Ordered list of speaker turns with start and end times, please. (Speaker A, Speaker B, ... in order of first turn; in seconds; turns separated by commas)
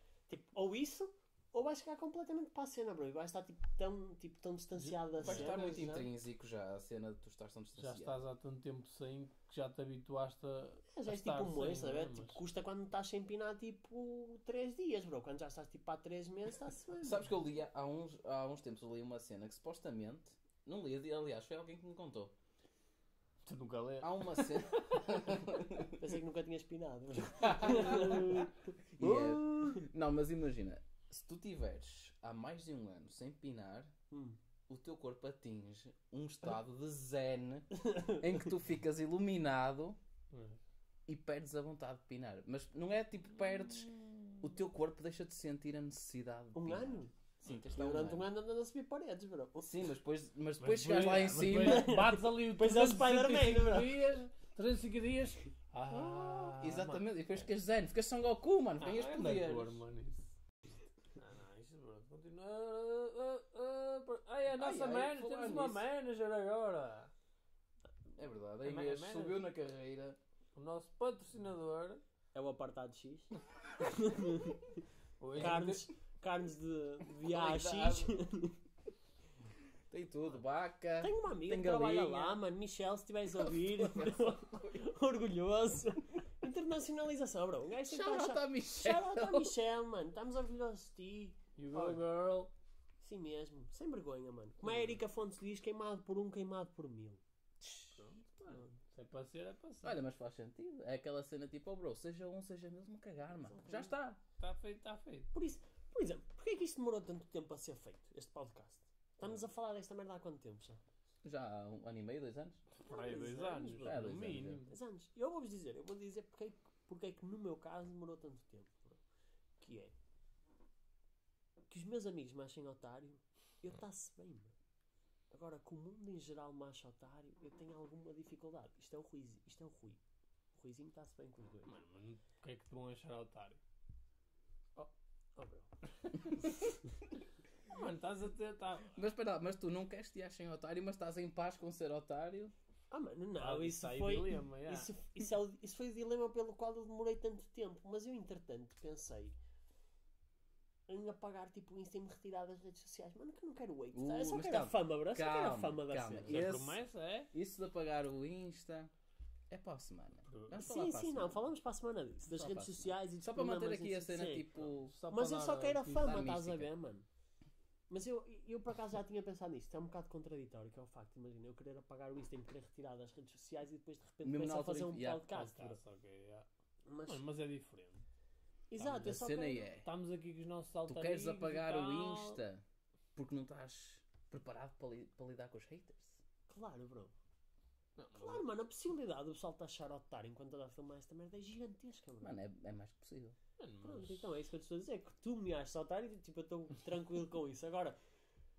Speaker A: 0.3-6.1, Speaker B: 4.8-8.2, Speaker C: 5.2-5.6, Speaker C: 7.8-12.4, Speaker A: 10.9-17.3, Speaker B: 17.0-22.3, Speaker C: 23.4-25.0, Speaker B: 24.0-25.9, Speaker A: 26.0-29.8, Speaker B: 27.4-28.4, Speaker B: 29.0-33.9, Speaker A: 34.1-34.4, Speaker B: 34.7-40.0, Speaker A: 37.8-38.2, Speaker C: 40.3-40.6, Speaker B: 41.1-48.3, Speaker A: 46.5-49.8, Speaker B: 49.6-51.9, Speaker C: 50.6-57.4, Speaker A: 51.5-54.0, Speaker A: 56.0-56.5, Speaker B: 56.6-59.8, Speaker C: 58.8-60.3, Speaker C: 61.2-67.1, Speaker B: 64.5-65.8, Speaker B: 68.2-70.2, Speaker C: 68.6-69.4, Speaker C: 70.5-72.0, Speaker A: 72.3-74.6, Speaker C: 75.2-75.8, Speaker A: 75.4-78.6, Speaker B: 75.4-75.7, Speaker B: 77.2-78.2, Speaker B: 79.9-82.4, Speaker A: 81.0-92.0, Speaker B: 83.4-84.7, Speaker B: 87.9-89.5, Speaker C: 91.6-92.5, Speaker A: 93.0-97.2, Speaker C: 94.7-95.0, Speaker B: 97.6-98.0, Speaker C: 97.9-100.0, Speaker A: 98.5-98.7, Speaker B: 99.8-104.2, Speaker A: 103.4-104.0, Speaker C: 104.4-105.3, Speaker A: 105.3-110.8, Speaker B: 111.2-112.6, Speaker C: 112.8-114.7, Speaker A: 112.9-114.0, Speaker B: 113.8-114.6, Speaker A: 114.7-119.0, Speaker A: 119.6-120.0, Speaker A: 121.7-124.5, Speaker A: 125.3-130.0, Speaker A: 130.5-131.8, Speaker C: 131.7-133.6, Speaker A: 134.8-135.7, Speaker C: 137.7-139.0, Speaker B: 138.9-142.5, Speaker A: 142.9-149.4, Speaker C: 143.4-144.9, Speaker A: 150.9-156.5, Speaker B: 153.9-156.8, Speaker C: 156.2-157.3, Speaker B: 157.3-158.9, Speaker B: 159.5-161.4, Speaker C: 160.3-160.5, Speaker A: 160.5-164.5, Speaker B: 162.2-164.9, Speaker C: 164.8-166.3, Speaker A: 165.1-167.1, Speaker B: 165.9-166.7, Speaker A: 167.9-175.8, Speaker B: 174.2-175.3, Speaker C: 175.3-176.5, Speaker A: 176.9-177.2, Speaker C: 177.1-178.1, Speaker A: 178.7-179.7, Speaker C: 178.8-179.2, Speaker B: 179.0-179.9, Speaker C: 179.8-182.4, Speaker B: 180.9-182.6, Speaker B: 183.2-186.2, Speaker A: 186.5-187.1, Speaker C: 188.0-188.5, Speaker A: 188.1-192.4, Speaker B: 192.2-193.4, Speaker C: 193.6-194.3, Speaker A: 193.8-198.0